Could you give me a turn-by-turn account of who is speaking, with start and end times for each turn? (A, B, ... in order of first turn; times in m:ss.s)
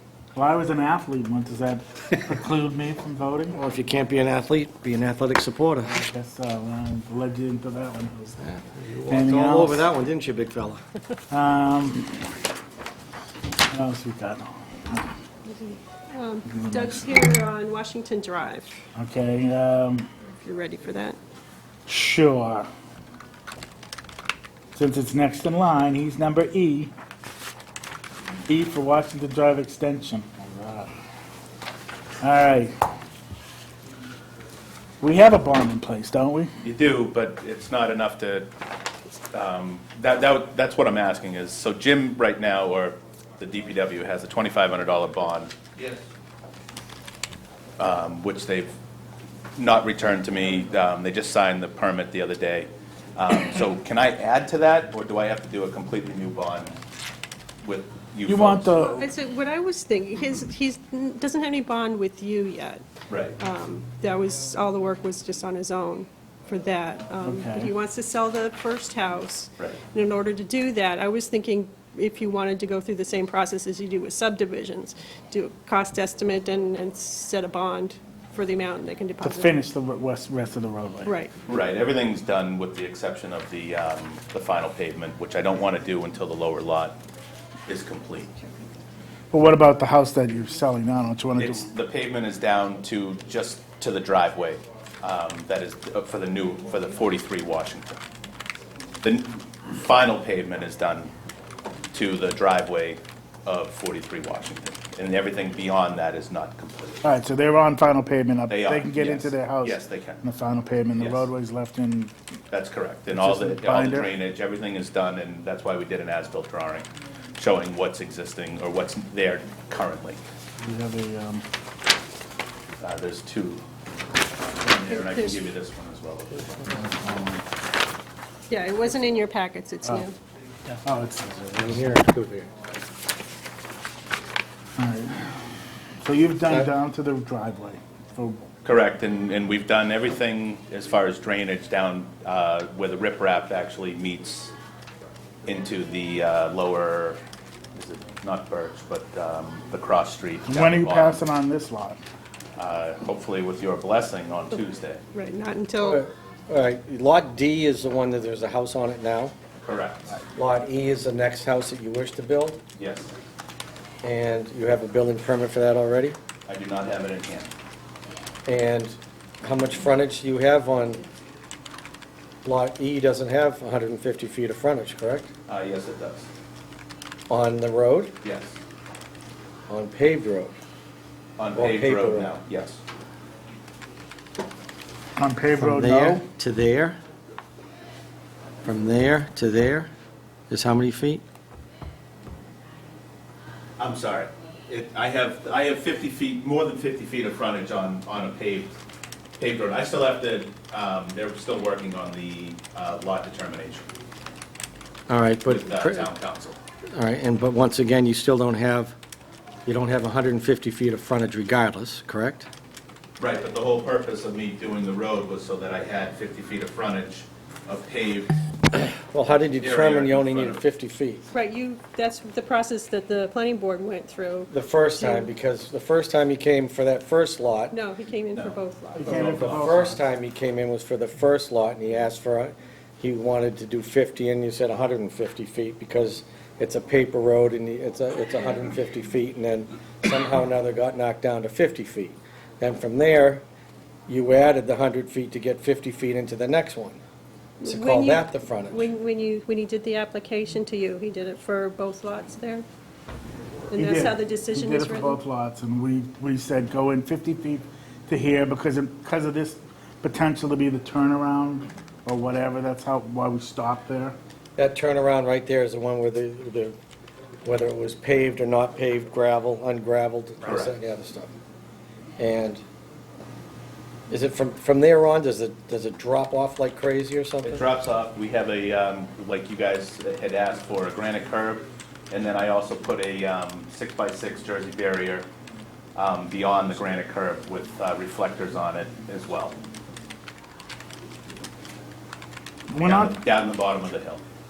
0:00.4-0:03.6 A
0:03.5-0:06.0 B
0:06.0-0:08.5 A
0:08.4-0:10.8 B
0:09.1-0:09.8 A
0:11.3-0:12.3 A
0:13.7-0:15.1 A
0:15.5-0:18.8 C
0:16.5-0:17.1 A
0:19.0-0:20.1 A
0:20.4-0:21.2 C
0:21.9-0:22.7 A
0:24.7-0:26.9 A
0:28.5-0:30.9 A
0:32.2-0:32.7 A
0:35.0-0:36.5 A
0:36.6-0:38.5 D
0:39.3-0:46.0 D
0:47.8-0:48.8 D
0:49.6-0:56.8 D
0:57.6-0:58.7 D
0:58.3-0:59.1 A
0:58.8-1:02.8 C
1:03.1-1:03.4 D
1:03.4-1:19.5 C
1:07.2-1:07.7 A
1:19.2-1:21.1 A
1:21.0-1:21.3 C
1:21.5-1:27.0 D
1:27.7-1:28.3 D
1:29.3-1:31.6 A
1:31.4-1:38.0 D
1:39.0-1:41.1 D
1:41.9-1:47.0 D
1:47.0-1:52.1 A
1:48.5-1:50.2 D
1:51.0-1:51.2 D
1:52.5-2:00.2 D
1:53.1-1:54.1 A
2:00.6-2:01.4 A
2:02.8-2:03.6 D
2:04.6-2:06.6 D
2:04.9-2:05.4 C
2:06.7-2:07.4 A
2:08.5-2:10.2 C
2:10.7-2:12.0 A
2:11.6-2:12.5 B
2:14.8-2:15.3 A
2:16.0-2:18.5 A
2:18.6-2:24.5 D
2:25.5-2:27.2 D
2:27.8-2:31.2 D
2:30.5-2:32.0 A
2:32.6-2:35.0 D
2:35.1-2:36.0 C
2:35.8-2:39.4 B
2:39.6-2:40.2 D
2:40.3-2:42.6 B
2:42.8-2:43.1 D
2:44.0-2:46.2 B
2:46.5-2:47.5 D
2:48.5-2:51.0 B
2:52.4-2:55.3 B
2:55.5-2:56.3 D
2:57.3-2:58.1 B
2:58.2-2:58.6 D
2:59.7-3:00.6 B
3:01.4-3:02.8 D
3:01.5-3:02.3 B
3:05.2-3:06.2 A
3:05.6-3:07.0 B
3:08.6-3:09.9 B
3:10.5-3:11.2 B
3:13.8-3:18.8 D
3:19.4-3:23.8 D
3:25.1-3:26.1 B
3:25.5-3:26.6 D
3:26.9-3:29.0 B
3:29.7-3:32.5 B
3:33.2-3:38.3 D
3:38.7-3:41.3 B
3:39.6-3:40.6 D
3:41.3-3:45.3 C
3:44.5-3:47.8 B
3:47.7-3:49.5 C
3:49.0-3:50.0 A
3:49.1-4:03.4 B
4:04.1-4:07.0 B
4:07.6-4:12.7 C
4:07.7-4:08.9 B
4:13.7-4:15.2 C
4:13.8-4:24.2 A
4:24.6-4:26.8 B
4:27.4-4:31.4 B
4:30.4-4:30.8 D
4:32.2-4:32.6 B
4:34.1-4:37.6 B
4:37.4-4:45.3 D
4:46.0-4:49.6 D
4:52.7-4:53.2 A
4:52.8-4:54.2 D